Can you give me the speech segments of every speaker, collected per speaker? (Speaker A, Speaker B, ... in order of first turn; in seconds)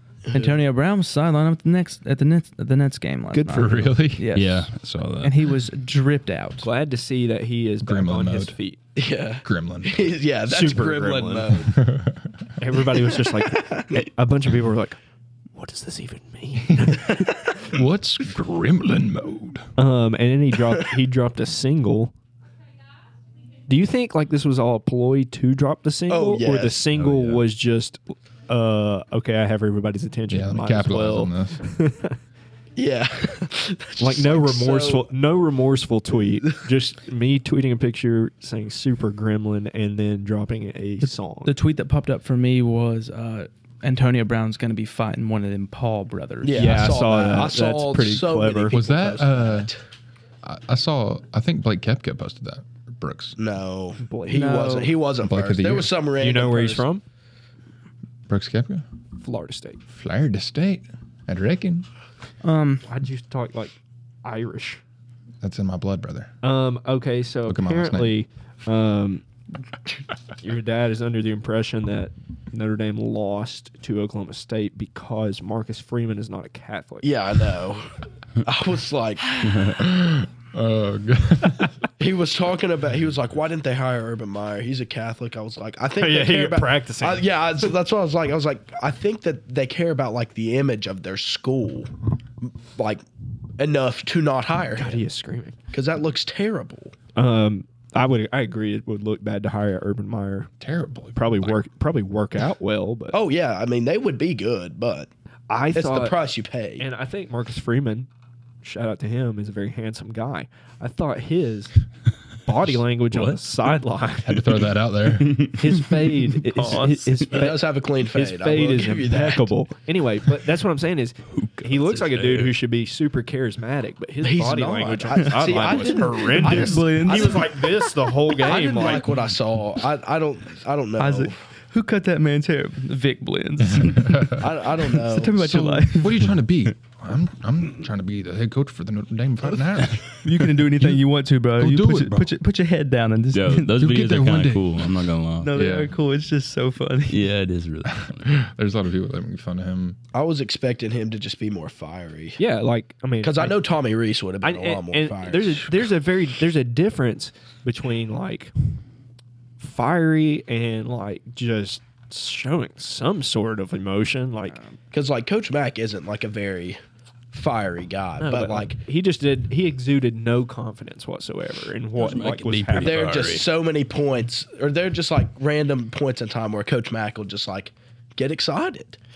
Speaker A: 0.3-0.6, 8.9-11.8, 13.1-13.9, 26.1-26.9, 32.8-35.1, 46.4-49.8, 53.4-56.9, 77.0-79.5, 82.0-93.0, 93.6-95.0, 95.7-97.0, 103.1-105.1, 105.7-106.9, 117.3-119.5, 124.2-127.5, 128.2-131.4, 134.4-135.8, 150.1-152.4, 153.2-155.8, 164.9-166.8, 167.3-168.8, 172.7-179.0
Speaker B: 0.3-6.7, 41.0-47.0, 54.3-54.9, 62.4-62.9, 116.5-117.1, 125.2-127.9, 131.0-136.4, 140.2-143.7, 145.4-147.2, 164.5-164.8
Speaker C: 3.3-3.9, 6.6-8.8, 10.4-11.6, 12.6-15.0, 15.5-17.6, 19.8-22.1, 23.7-32.2, 34.0-41.5, 46.5-48.8, 54.0-54.5, 56.2-57.0, 59.2-59.8, 62.8-64.8, 66.4-69.2, 70.4-77.1, 85.9-87.3, 94.7-95.6, 97.1-100.5, 101.1-103.1, 105.5-106.2, 106.8-108.1, 108.6-111.7, 112.4-114.6, 115.5-129.2, 152.4-153.6, 154.4-158.5, 159.6-164.6, 168.2-173.4
Speaker D: 3.5-4.3, 7.8-8.6, 9.4-10.2, 11.7-12.4, 17.7-19.7, 27.0-27.4, 30.3-31.6, 48.7-49.7, 50.4-53.4, 55.2-55.9, 58.3-58.8, 59.9-61.9, 65.4-66.3, 67.5-68.2, 79.8-81.7, 100.6-101.6, 114.2-115.5, 133.6-134.5, 135.8-141.0, 141.6-142.3, 143.7-145.0, 145.5-145.9, 148.0-150.0
Speaker E: 4.3-5.5, 79.4-79.8, 113.1-113.4, 115.0-115.9, 121.4-122.6, 143.3-145.6, 147.1-148.3, 172.0-173.4